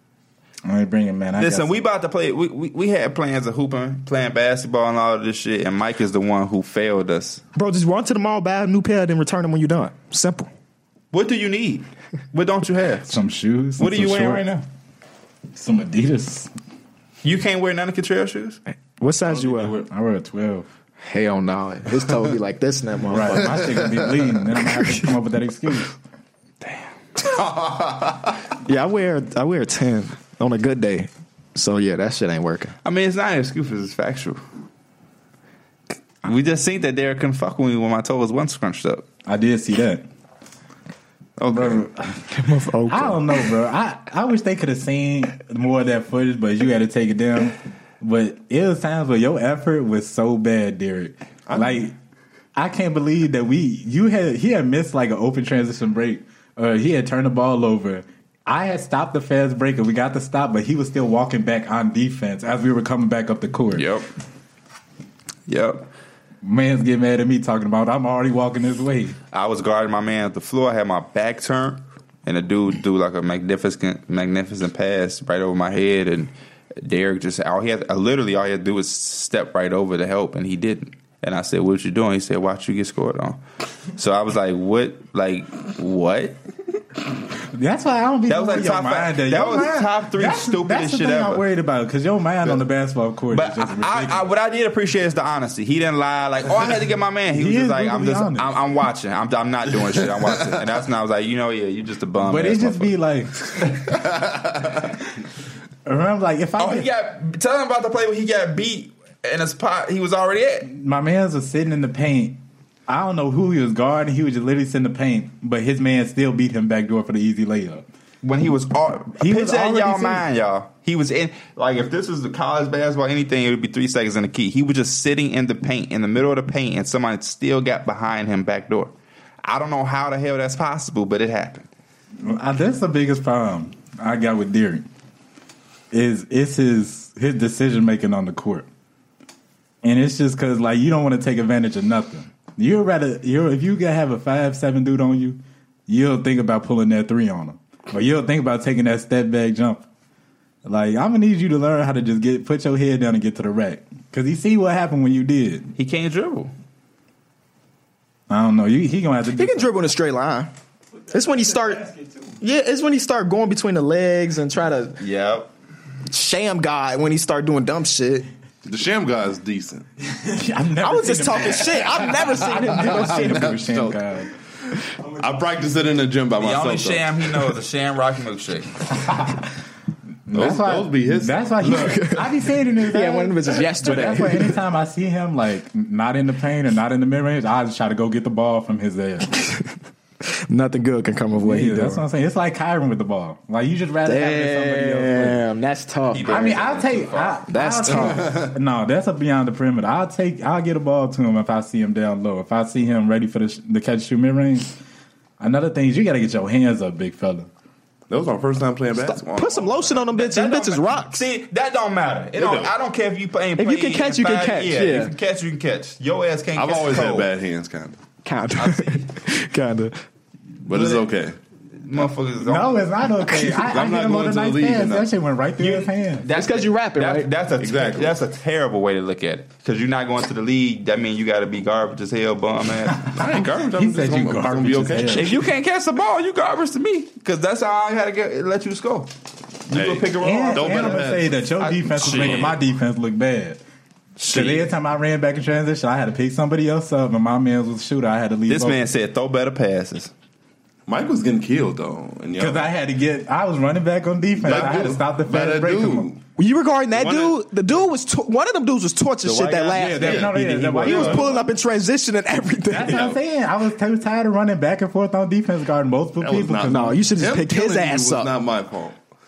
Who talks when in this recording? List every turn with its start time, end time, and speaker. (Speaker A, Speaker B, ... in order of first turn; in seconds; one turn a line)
Speaker A: 0.7-1.8
Speaker B: 1.4-7.4
Speaker C: 7.5-10.5
Speaker B: 11.1-13.2
Speaker A: 13.1-14.5
Speaker B: 13.8-14.6
Speaker A: 15.5-16.5
Speaker B: 17.2-18.6
Speaker C: 19.0-19.8
Speaker A: 19.5-20.6
Speaker C: 21.0-23.6
Speaker A: 23.1-26.0
Speaker D: 23.5-24.1
Speaker D: 27.3-28.4
Speaker C: 28.6-32.7
Speaker B: 32.8-34.4
Speaker B: 36.2-39.0
Speaker A: 39.2-40.0
Speaker D: 41.4-41.8
Speaker A: 41.5-42.2
Speaker C: 42.3-43.3
Speaker A: 42.9-51.9
Speaker D: 51.5-51.8
Speaker A: 52.5-63.9
Speaker B: 63.7-64.1
Speaker B: 65.5-65.8
Speaker A: 66.4-69.2
Speaker B: 69.3-83.4
Speaker B: 83.9-86.4
Speaker A: 87.5-94.3
Speaker B: 88.3-91.4
Speaker B: 93.3-103.0
Speaker A: 97.3-98.5
Speaker A: 102.2-103.4
Speaker D: 104.1-104.7
Speaker A: 105.8-106.9
Speaker B: 106.6-110.7
Speaker A: 110.6-117.8
Speaker B: 118.2-128.9
Speaker A: 119.2-120.2
Speaker B: 129.4-131.7
Speaker A: 132.2-134.9
Speaker A: 135.9-138.7
Speaker A: 139.8-149.8
Speaker A: 150.6-155.7
Speaker B: 155.8-156.5
Speaker A: 158.3-159.7
Speaker C: 159.4-160.5
Speaker C: 161.1-165.0
Speaker B: 165.0-165.5
Speaker C: 166.1-168.2
Speaker D: 168.6-169.8
Speaker A: 170.2-174.3
Speaker C: 170.8-173.5
Speaker D: 172.7-174.0
Speaker D: 175.2-177.6
Speaker B: 176.4-178.7
Speaker A: 179.1-179.4
Speaker A: 180.3-189.4
Speaker D: 180.3-182.1
Speaker C: 181.6-182.3
Speaker C: 182.9-184.6
Speaker C: 190.5-192.0
Speaker A: 191.4-195.4
Speaker C: 194.0-196.6
Speaker B: 196.1-197.4
Speaker A: 196.3-204.7
Speaker C: 197.5-198.3
Speaker D: 198.0-198.5
Speaker A: 205.4-207.5
Speaker D: 208.1-210.0
Speaker C: 209.0-211.2
Speaker B: 210.1-217.3
Speaker D: 212.3-212.7
Speaker C: 213.6-215.1
Speaker D: 216.5-218.0
Speaker C: 218.2-220.0
Speaker B: 218.6-219.1
Speaker D: 220.7-221.4
Speaker B: 220.7-221.0
Speaker B: 221.8-222.8
Speaker A: 222.4-226.2
Speaker C: 223.2-223.7
Speaker D: 223.7-225.1
Speaker B: 225.6-233.1
Speaker C: 226.3-227.3
Speaker D: 227.6-228.2
Speaker A: 233.0-235.3
Speaker D: 233.1-235.4
Speaker B: 235.1-239.1
Speaker B: 239.7-242.6
Speaker D: 239.7-241.3
Speaker A: 240.2-243.6
Speaker D: 242.0-242.5
Speaker B: 244.2-244.7
Speaker A: 244.3-248.9
Speaker B: 248.5-250.1
Speaker D: 250.9-252.7
Speaker A: 252.4-256.1
Speaker D: 254.4-256.2
Speaker C: 256.4-263.1
Speaker D: 256.9-257.4
Speaker B: 259.2-261.4
Speaker A: 259.8-261.4
Speaker D: 260.0-260.3
Speaker A: 262.7-267.1
Speaker D: 262.9-263.2
Speaker D: 266.2-269.0
Speaker C: 266.6-268.3